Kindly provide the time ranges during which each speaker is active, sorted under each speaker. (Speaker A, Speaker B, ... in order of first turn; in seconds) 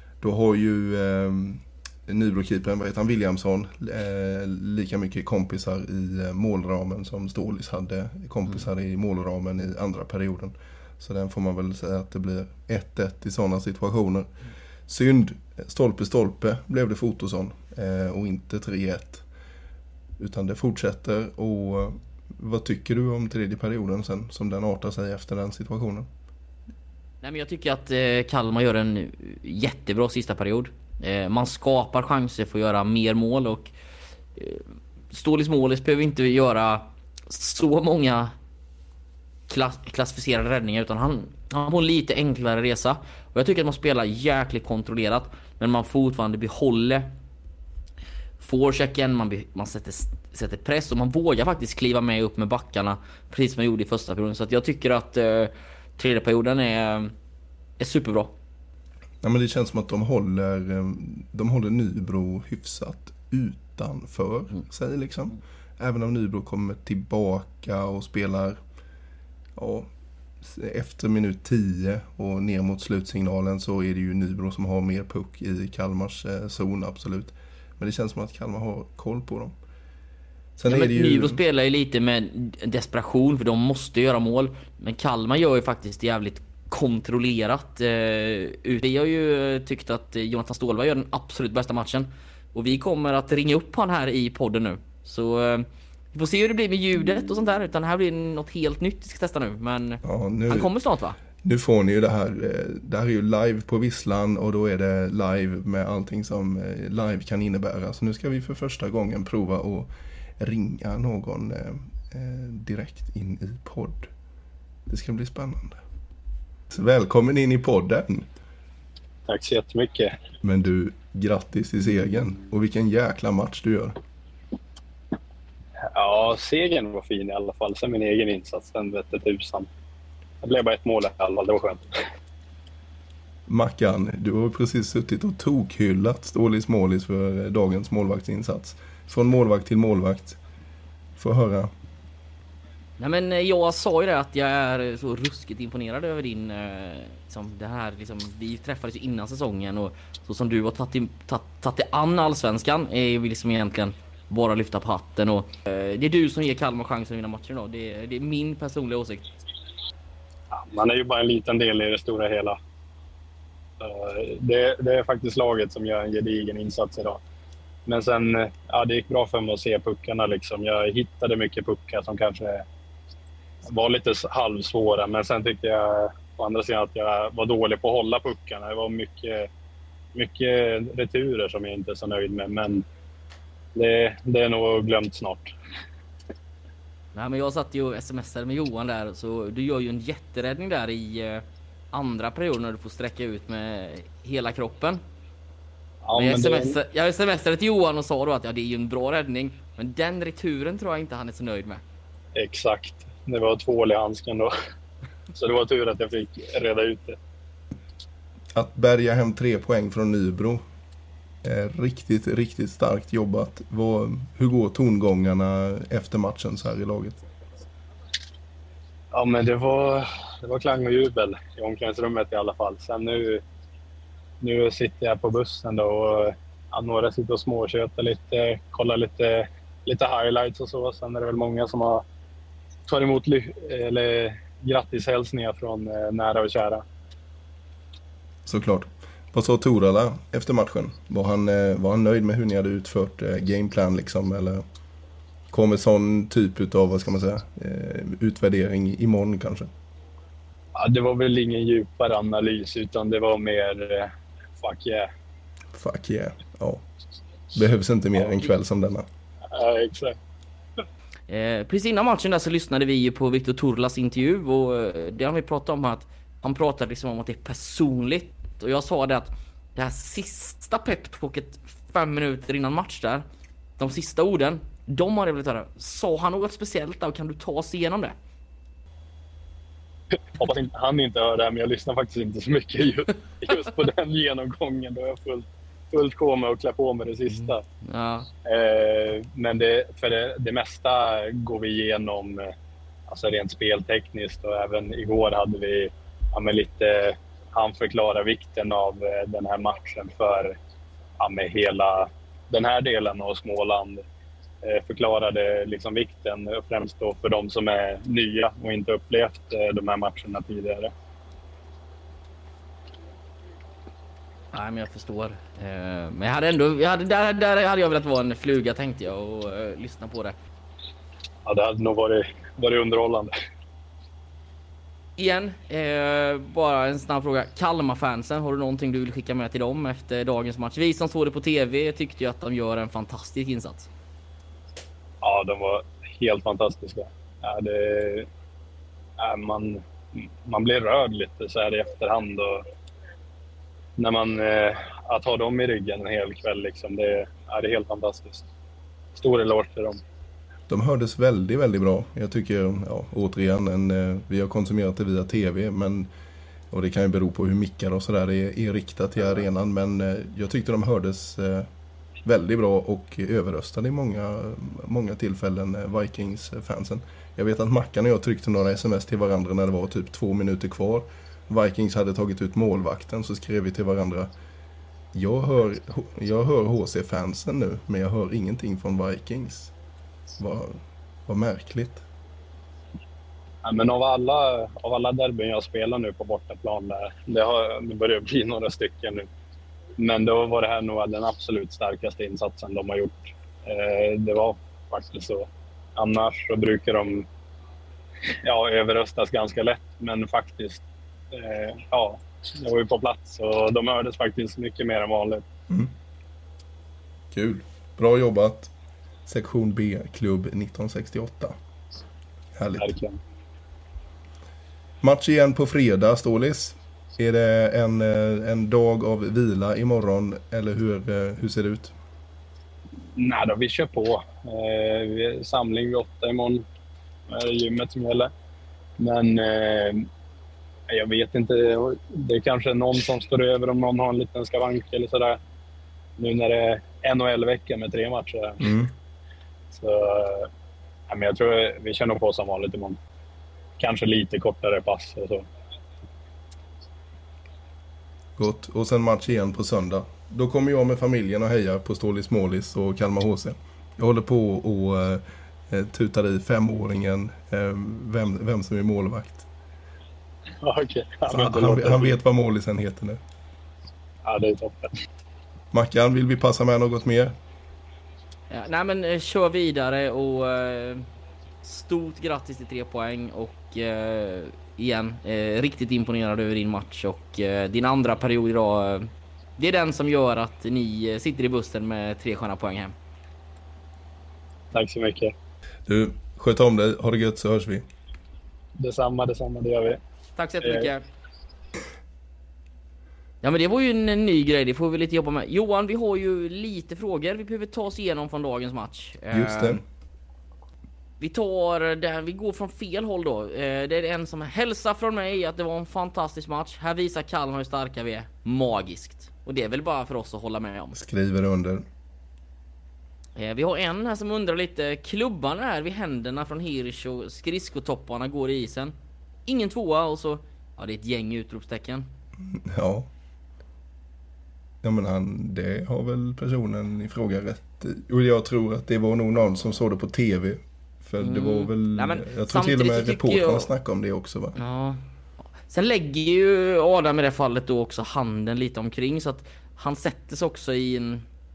Speaker A: 0.2-14.3, 14.9-19.2, 20.2-26.1, 59.2-68.6, 69.5-69.9, 70.4-79.5, 80.6-81.4, 100.0-100.7, 101.4-114.1, 114.9-115.8, 116.7-118.3, 120.4-124.0, 133.5-140.4, 141.2-141.7, 208.5-210.6, 211.4-217.2, 238.4-244.6, 245.5-249.7, 255.7-256.8, 257.5-259.1, 350.7-356.1, 356.7-361.7, 362.2-374.3, 375.1-379.7, 380.4-382.0, 407.3-408.7, 409.2-411.5, 412.6-412.9, 415.0-421.9, 438.6-438.9, 448.4-459.5, 461.3-463.2, 465.7-467.3, 485.9-487.9, 499.3-499.8, 510.9-511.9, 522.4-523.1, 524.8-534.6
Speaker B: 27.2-33.7, 34.4-38.3, 39.5-47.1, 48.4-57.1, 57.8-58.3, 80.7-101.2, 143.0-159.3, 187.1-195.0, 196.1-201.8, 261.3-273.2, 273.8-278.1, 287.3-288.3, 314.5-320.4, 325.2-333.9, 468.5-471.1, 471.6-482.9, 490.4-491.0, 493.4-499.8, 501.2-510.9, 513.4-518.9, 519.5-522.1, 531.2-533.7, 534.5-535.0, 535.6-541.2
Speaker C: 119.3-120.2, 125.8-129.7, 130.4-132.1, 160.5-162.6, 163.8-167.2, 167.8-172.7, 173.7-179.5, 180.1-182.8, 183.7-185.5, 196.0-196.8, 202.3-204.5, 205.3-207.2, 219.1-223.4, 224.4-232.0, 232.9-236.8, 250.8-255.1, 259.5-260.2, 280.3-287.6, 288.4-292.5, 293.1-300.6, 301.2-304.0, 304.6-310.9, 321.4-323.3, 335.2-338.3, 339.2-342.6, 344.0-348.4, 349.1-350.0, 383.6-389.3, 390.0-397.3, 398.4-400.8, 401.3-405.4, 412.8-413.2, 423.1-426.6, 427.3-428.3, 429.0-430.1, 430.9-435.4, 436.2-438.7, 439.7-440.5, 441.1-443.0, 443.8-445.4, 460.6-462.2, 464.2-465.0, 484.7-485.3, 488.8-490.0, 490.6-490.9